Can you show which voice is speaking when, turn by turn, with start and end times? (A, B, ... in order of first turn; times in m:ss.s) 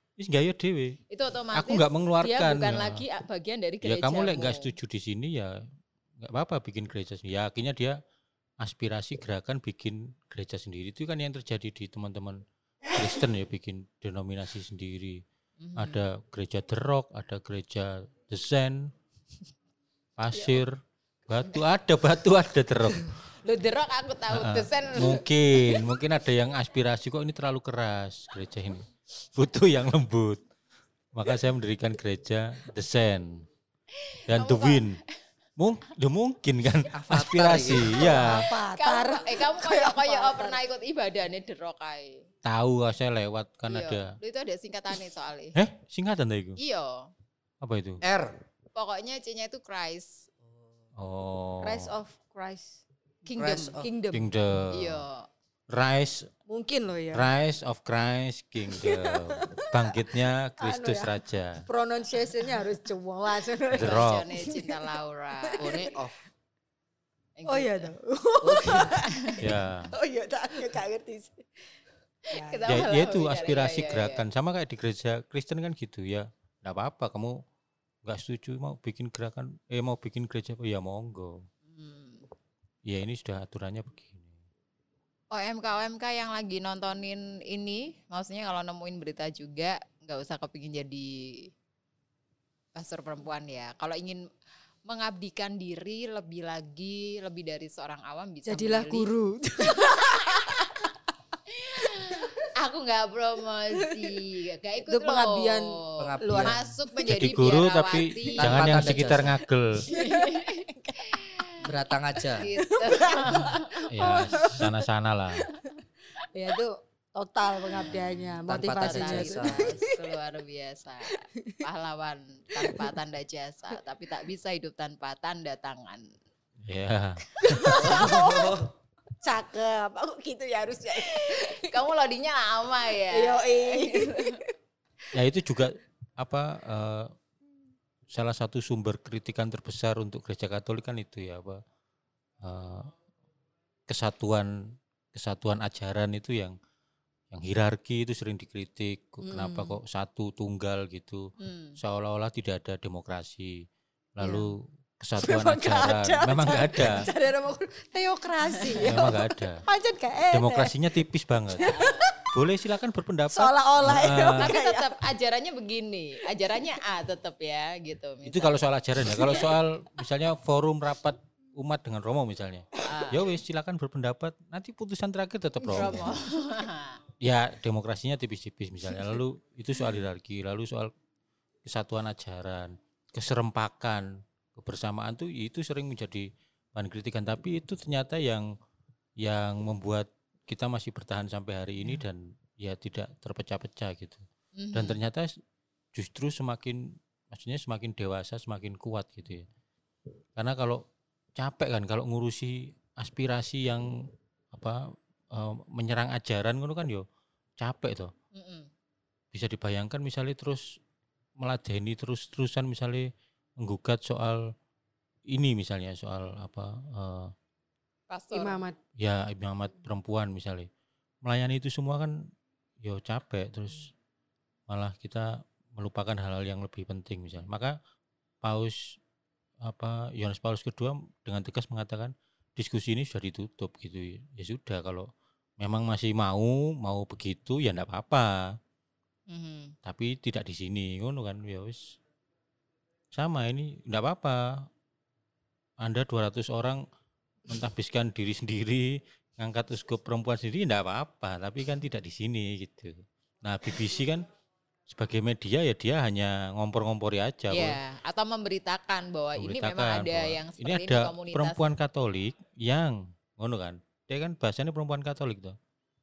0:00.2-0:01.0 A
0:01.1-0:04.7 B
0:01.5-0:03.0 A
0:03.8-0:05.6 A
0:06.2-0:08.0 A
0:08.6-0:15.2 A
0:15.6-0:16.0 B
0:15.8-0:18.9 A
0:20.2-0:23.2 A
0:20.3-0:20.6 B
0:23.4-0:25.9 B
0:24.3-0:30.4 A
0:31.1-0:33.5 A
0:34.0-0:35.2 B
0:34.3-0:35.0 A
0:35.6-0:38.5 A
0:36.9-0:38.2 C
0:37.9-0:40.6 D
0:38.2-0:42.3 B
0:42.4-0:44.2 A
0:43.7-0:45.6 B
0:45.5-0:46.6 A
0:46.6-0:47.1 B
0:47.6-0:48.0 A
0:48.0-0:48.4 C
0:48.7-0:50.3 B
0:50.4-0:50.8 C
0:51.0-0:51.9 A
0:51.6-0:52.8 D
0:53.2-0:53.8 B
0:53.3-0:53.9 C
0:53.8-0:54.3 D
0:54.1-0:55.0 A
0:54.7-0:55.3 B
0:55.7-0:56.3 A
0:56.5-0:57.3 D
0:57.1-1:01.6 A
0:58.7-1:00.0 D
1:00.6-1:04.8 D
1:03.7-1:04.2 A
1:03.7-1:05.8 B
1:05.4-1:06.0 D
1:05.6-1:06.2 C
1:07.4-1:07.9 B
1:07.5-1:09.4 D
1:08.4-1:09.0 C
1:08.7-1:09.5 B
1:09.4-1:09.9 A
1:09.9-1:11.8 D
1:12.3-1:12.8 D
1:12.3-1:14.2 B
1:12.7-1:17.4 A
1:18.0-1:21.5 A
1:21.7-1:22.3 B
1:22.9-1:24.3 A
1:25.3-1:31.5 B
1:32.7-1:34.2 B
1:34.9-1:39.1 B
1:38.4-1:41.0 D
1:39.6-1:40.9 B
1:41.5-1:49.1 B
1:41.8-1:42.5 D
1:43.9-1:44.2 D
1:44.8-1:46.5 D
1:46.0-1:46.7 C
1:47.0-1:49.9 A
1:48.4-1:49.4 C
1:49.8-1:54.6 B
1:49.9-1:51.4 D
1:51.6-1:52.5 C
1:52.6-1:54.7 D
1:53.9-1:55.5 A
1:56.3-2:00.1 D
1:57.6-2:06.1 B
1:58.4-1:59.9 C
2:01.3-2:01.7 D
2:02.6-2:02.9 D
2:06.6-2:07.8 A
2:07.4-2:08.7 D
2:07.5-2:08.4 B
2:07.7-2:08.7 C
2:09.2-2:11.8 D
2:10.9-2:14.4 B
2:13.1-2:14.5 D
2:15.1-2:17.1 A
2:18.1-2:21.6 A
2:22.4-2:22.9 A
2:23.9-2:26.6 A
2:27.3-2:33.6 A
2:29.2-2:29.8 D
2:31.4-2:31.8 B
2:34.2-2:37.1 A
2:34.2-2:34.6 D
2:35.2-2:41.0 D
2:38.6-2:39.1 B
2:38.8-2:39.6 A
2:40.3-2:44.5 A
2:41.5-2:42.3 D
2:41.6-2:42.1 B
2:43.3-2:45.0 D
2:44.4-2:49.4 B
2:48.2-2:56.2 A
2:52.8-2:53.3 B
2:55.6-2:56.1 D
2:55.7-2:57.0 B
2:57.2-3:00.9 A
3:01.6-3:08.5 A
3:09.2-3:15.3 A
3:14.6-3:15.0 B
3:15.9-3:19.4 A
3:20.4-3:20.8 A
3:21.4-3:23.9 A
3:24.5-3:27.0 A
3:27.6-3:28.1 A
3:28.3-3:28.7 B
3:29.3-3:30.7 A
3:31.4-3:34.5 A
3:35.3-3:37.3 A
3:38.1-3:38.6 B
3:38.3-3:38.8 D
3:39.0-3:40.7 A
3:41.2-3:42.3 A
3:42.8-3:43.9 A
3:44.7-3:47.8 A
3:48.4-3:49.0 A
3:49.6-3:58.6 A
3:59.3-3:59.7 B
3:59.8-4:02.0 A
4:03.1-4:04.7 A
4:05.8-4:06.8 A
4:07.5-4:14.2 A
4:14.9-4:17.8 A
4:17.5-4:21.6 B
4:19.4-4:25.6 A